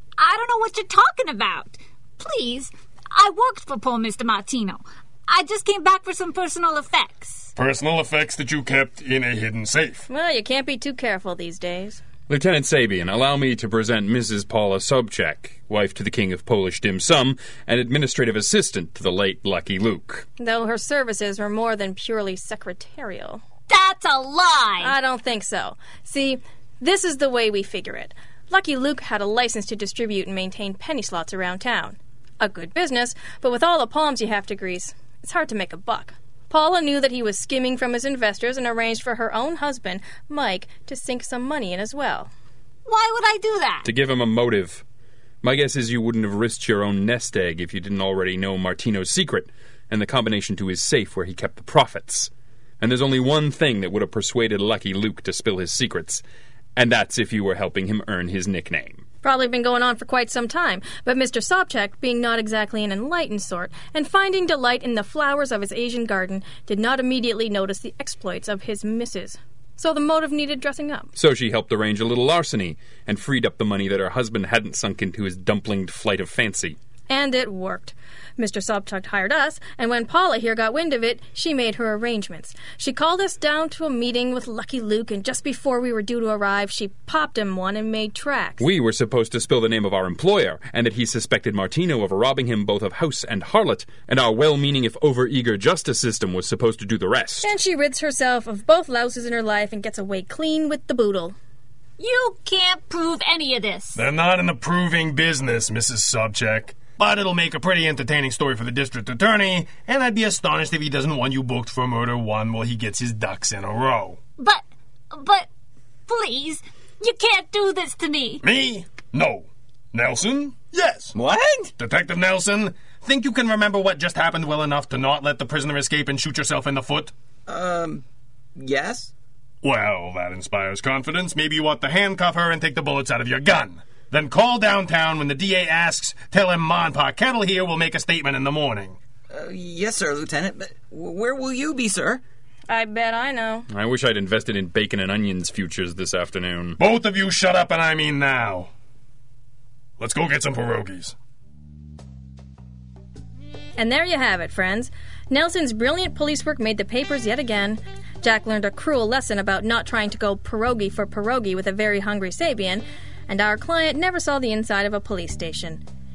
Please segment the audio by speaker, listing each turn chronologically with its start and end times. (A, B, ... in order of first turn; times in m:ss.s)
0:00.2-0:07.5 A
0:07.6-0:10.0 B
0:10.1-0:12.0 C
0:12.3-0:20.2 D
0:20.4-0:23.4 C
0:23.7-0:25.0 A
0:24.8-0:42.3 C
0:42.8-0:43.9 A
0:43.8-0:44.8 D
0:45.4-0:56.2 D
0:56.8-0:59.0 D
0:59.2-1:11.1 C
1:11.2-1:16.8 D
1:17.1-1:28.6 C
1:28.6-1:37.5 D
1:37.4-1:41.4 C
1:42.0-1:44.0 A
1:43.9-1:54.2 B
1:54.4-1:55.5 A
1:56.1-1:58.4 A
1:58.4-2:01.1 B
2:01.1-2:01.7 E
2:01.8-2:07.1 B
2:07.5-2:08.0 E
2:08.6-2:09.1 E
2:09.6-2:19.0 B
2:19.3-2:22.2 E
2:22.7-2:23.7 C
2:23.7-2:26.8 D
2:26.8-2:28.7 B
2:30.0-2:31.1 B
2:33.8-2:45.8 C